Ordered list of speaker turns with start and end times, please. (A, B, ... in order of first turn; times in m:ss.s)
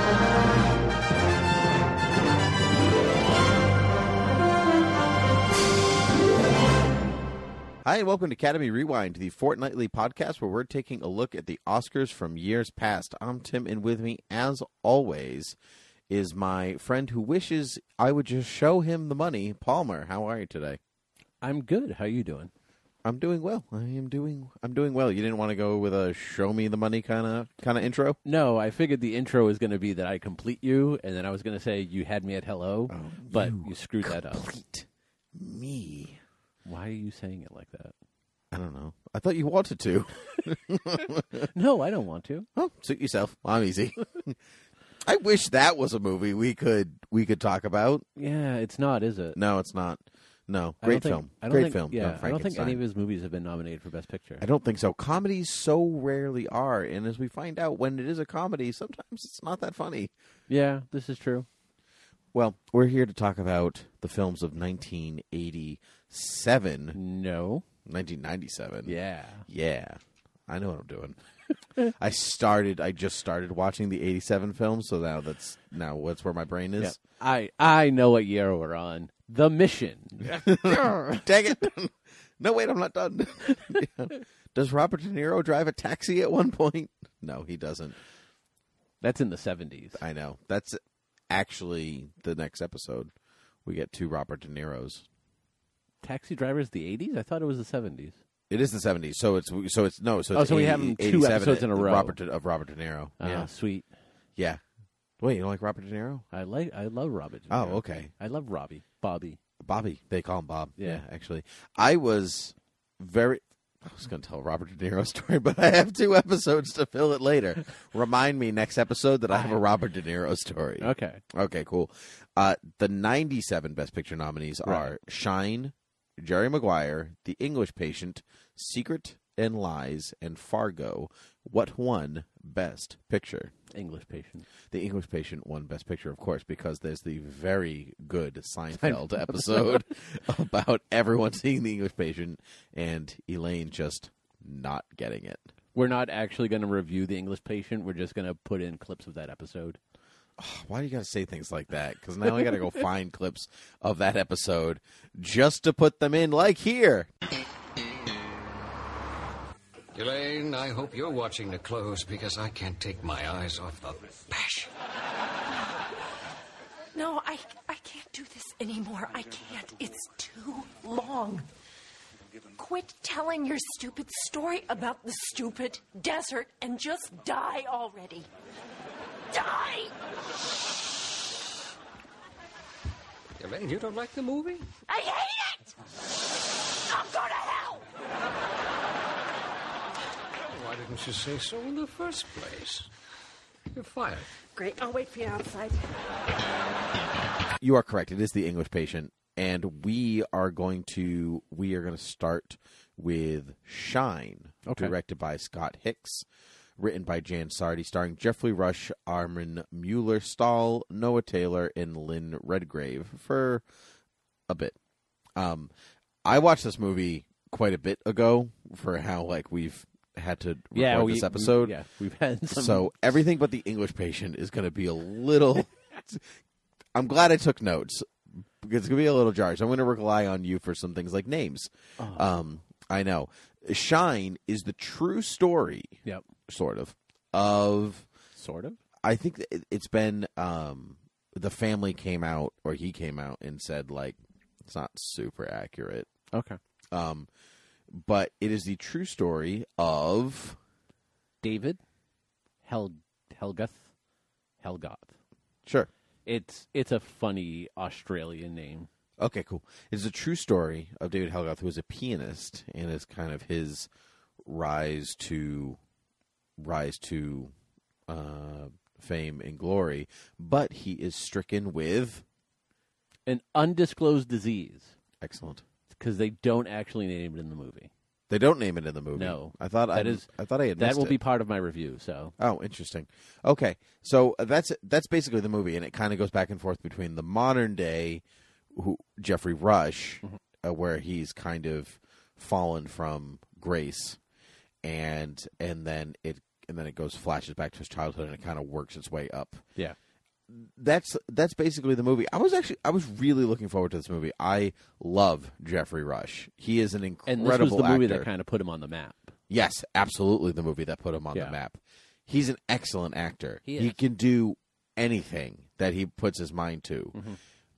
0:07.8-0:15.6 A
0:16.1-0:20.8 A
0:21.4-0:22.5 B
0:23.0-0:28.2 A
0:28.2-0:34.5 B
0:32.9-0:36.2 A
0:36.7-0:37.9 B
0:38.5-0:41.5 A
0:41.5-0:42.5 B
0:42.6-0:44.4 A
0:45.0-0:48.0 A
0:48.2-0:49.4 B
0:49.4-0:52.8 A
0:50.8-0:54.4 B
0:54.4-1:00.1 A
1:00.5-1:01.5 B
1:02.3-1:07.0 A
1:07.0-1:07.6 B
1:07.9-1:09.0 A
1:08.8-1:09.5 B
1:09.5-1:11.2 A
1:11.9-1:17.0 A
1:16.8-1:21.1 B
1:20.2-1:28.0 A
1:29.0-1:30.0 B
1:30.0-1:33.1 A
1:33.6-1:35.0 A
1:36.0-1:38.2 B
1:38.5-1:43.5 A
1:40.3-1:42.2 B
1:43.2-1:43.9 B
1:44.4-1:44.6 A
1:45.2-1:46.2 A
1:46.3-1:49.4 B
1:47.5-1:48.1 A
1:49.6-2:13.5 A
1:59.3-1:59.6 B
2:00.8-2:01.2 B
2:04.6-2:04.9 B
2:13.7-2:14.5 B
2:14.7-2:25.4 A
2:18.8-2:19.8 B
2:25.8-2:29.8 B
2:30.4-2:37.1 A
2:39.9-2:44.7 C
2:47.0-2:51.5 D
2:52.6-2:58.3 D
2:59.3-2:59.9 D
3:03.4-3:04.7 C
3:04.9-3:05.6 D
3:06.9-3:07.8 D
3:10.4-3:12.9 C
3:13.7-3:14.3 C
3:14.6-3:15.8 D
3:17.6-3:26.3 A
3:24.7-3:24.9 B
3:26.8-3:33.6 A
3:34.5-3:34.8 A
3:35.4-3:35.7 A
3:36.2-3:41.8 A
3:40.7-3:42.9 B
3:42.5-3:46.2 A
3:47.0-3:56.0 A
3:52.0-3:52.3 B
3:56.5-3:58.1 A
3:58.4-3:58.8 B
3:59.0-4:06.1 A
4:06.3-4:06.6 B
4:06.9-4:07.3 A
4:07.9-4:10.6 A
4:11.4-4:11.8 B
4:12.6-4:13.9 B
4:14.6-4:15.1 B
4:16.3-4:18.9 B
4:19.2-4:23.9 A
4:24.4-4:25.8 A
4:26.6-4:27.5 A
4:28.1-4:32.2 A
4:33.3-4:34.9 B
4:35.2-4:35.6 A
4:35.9-4:37.9 B
4:38.3-4:41.2 A
4:39.2-4:40.3 B
4:40.8-4:42.3 B
4:42.4-4:48.2 A
4:48.7-4:54.2 A
4:54.8-4:59.6 A
5:00.5-5:08.3 A
5:07.3-5:09.3 B
5:09.5-5:17.2 A
5:13.6-5:14.0 B
5:17.1-5:17.4 B